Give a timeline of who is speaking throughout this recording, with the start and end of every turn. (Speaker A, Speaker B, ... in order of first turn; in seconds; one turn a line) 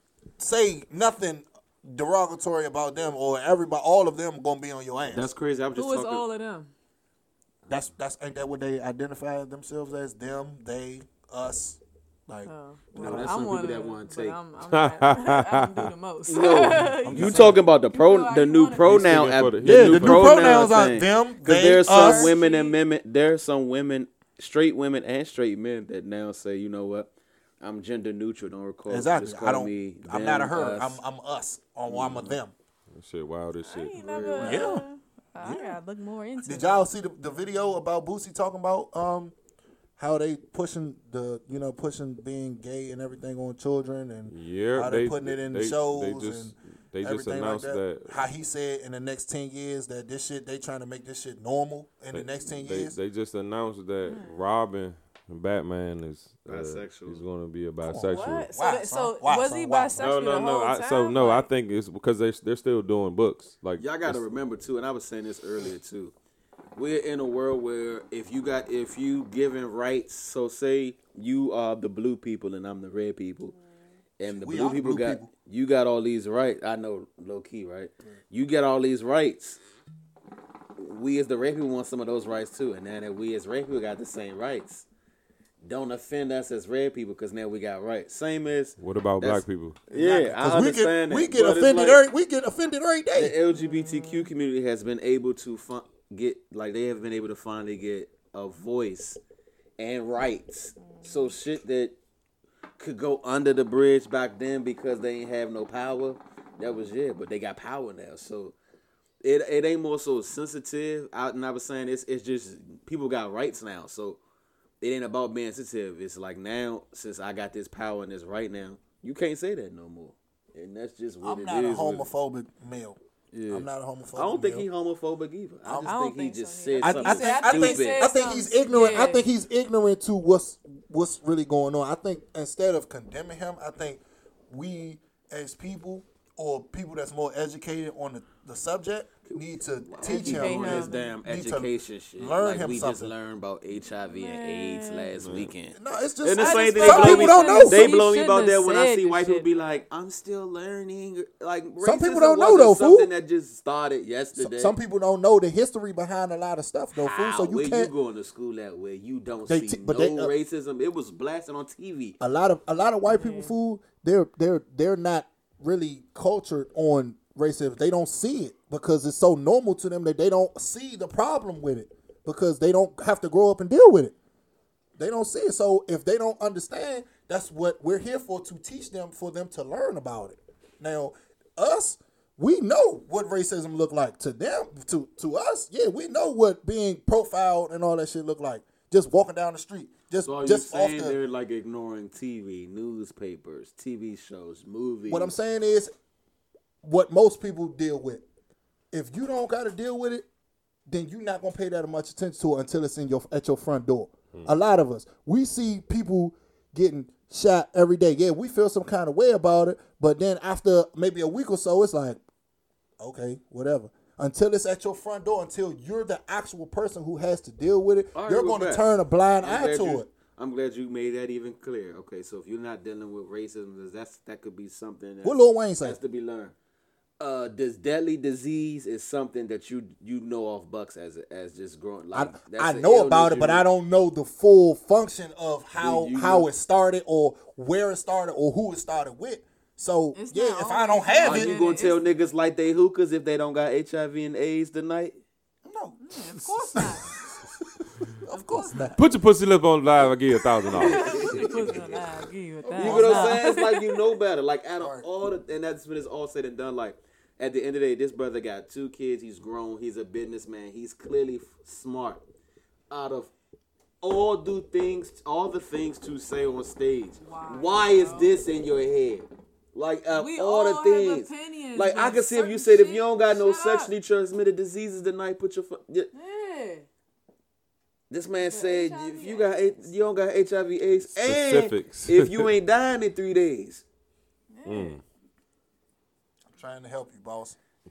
Speaker A: 0.4-5.3
Speaker B: 5.1-6.2
Speaker C: 5.8-6.7
Speaker A: 7.7-13.3
Speaker C: 12.4-19.0
Speaker B: 12.9-14.4
Speaker D: 14.7-15.9
Speaker B: 16.3-27.1
Speaker A: 17.0-17.6
Speaker D: 18.8-20.6
Speaker A: 19.6-22.4
Speaker C: 22.0-22.8
Speaker B: 27.6-31.0
Speaker A: 28.9-32.5
Speaker B: 31.9-32.4
Speaker D: 32.9-34.0
Speaker C: 33.6-36.9
Speaker B: 34.0-34.8
Speaker A: 34.4-34.9
Speaker A: 35.4-35.8
Speaker A: 36.4-39.3
Speaker A: 40.0-53.0
Speaker D: 44.3-48.2
Speaker D: 52.1-58.5
Speaker C: 54.0-54.3
Speaker B: 56.5-57.2
Speaker A: 57.8-60.0
Speaker C: 57.9-61.5
Speaker D: 60.0-64.2
Speaker B: 63.8-66.1
Speaker B: 66.7-73.5
Speaker B: 74.2-79.6
Speaker A: 74.3-75.3
Speaker B: 80.8-84.9
Speaker B: 85.6-92.0
Speaker D: 88.8-89.8
Speaker A: 89.9-93.3
Speaker B: 93.1-99.2
Speaker C: 93.5-94.3
Speaker B: 99.8-101.9
Speaker C: 100.8-101.3
Speaker B: 102.8-108.5
Speaker B: 109.2-114.2
Speaker B: 114.8-122.1
Speaker A: 121.2-123.0
Speaker B: 123.3-128.1
Speaker A: 123.5-124.7
Speaker A: 125.6-125.9
Speaker C: 125.8-129.3
Speaker A: 126.8-143.1
Speaker B: 139.3-154.8
Speaker C: 140.0-141.1
Speaker C: 144.1-145.1
Speaker D: 145.2-145.5
Speaker A: 145.7-148.0
Speaker C: 146.4-149.4
Speaker A: 151.8-153.1
Speaker A: 154.3-157.9
Speaker B: 156.9-162.2
Speaker A: 159.5-160.3
Speaker A: 162.2-174.1
Speaker C: 163.1-163.5
Speaker A: 175.0-191.2
Speaker B: 190.2-195.3
Speaker A: 195.1-195.9
Speaker A: 196.8-198.2
Speaker A: 198.9-200.3
Speaker A: 200.9-212.2
Speaker A: 213.0-220.1
Speaker B: 218.1-218.8
Speaker B: 219.4-226.6
Speaker A: 225.2-226.0
Speaker B: 227.2-233.7
Speaker A: 232.1-241.6
Speaker B: 235.8-236.5
Speaker C: 240.1-242.1
Speaker B: 241.2-245.2
Speaker A: 245.6-249.0
Speaker C: 246.0-247.1
Speaker C: 248.3-249.0
Speaker D: 249.0-251.2
Speaker A: 250.0-253.5
Speaker C: 250.7-254.0
Speaker B: 250.7-251.5
Speaker B: 252.7-262.2
Speaker A: 254.8-255.1
Speaker B: 262.9-263.3
Speaker B: 264.0-276.1
Speaker C: 267.2-268.4
Speaker C: 270.1-273.9
Speaker C: 276.1-276.9
Speaker B: 278.1-283.9
Speaker C: 278.4-279.5
Speaker D: 280.9-282.5
Speaker C: 284.5-285.0
Speaker D: 284.6-285.0
Speaker A: 286.5-287.6